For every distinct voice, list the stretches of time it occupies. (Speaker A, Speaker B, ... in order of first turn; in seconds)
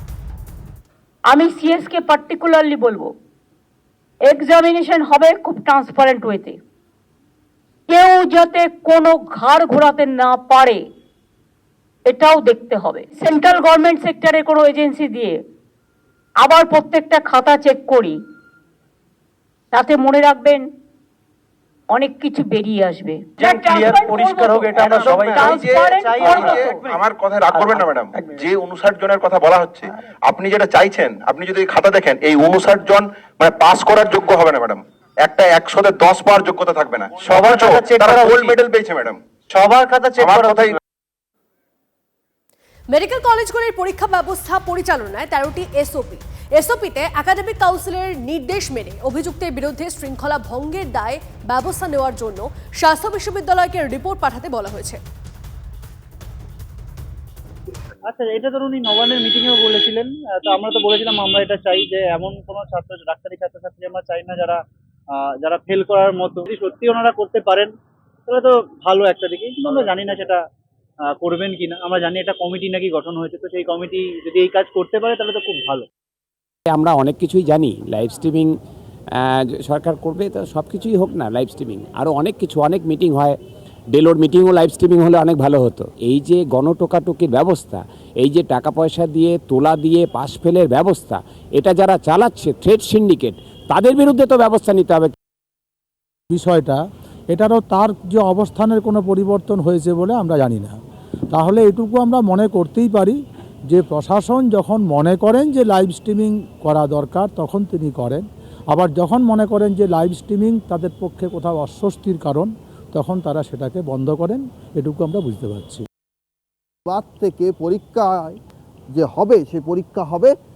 Speaker A: 1.3-3.1, 4.3-6.6, 7.9-10.8, 12.1-15.4, 16.4-18.2, 19.7-20.7, 21.9-24.7, 25.2-26.5
Speaker B: 23.4-28.5, 37.1-40.8
Speaker C: 23.5-39.1
Speaker D: 42.9-55.0
Speaker E: 58.0-67.7, 68.3-70.4, 71.0-75.9
Speaker F: 76.7-78.5, 79.2-83.4, 83.9-95.1
Speaker G: 96.3-100.8, 101.3-103.2, 103.7-115.8
Speaker H: 116.9-118.4, 118.9-120.3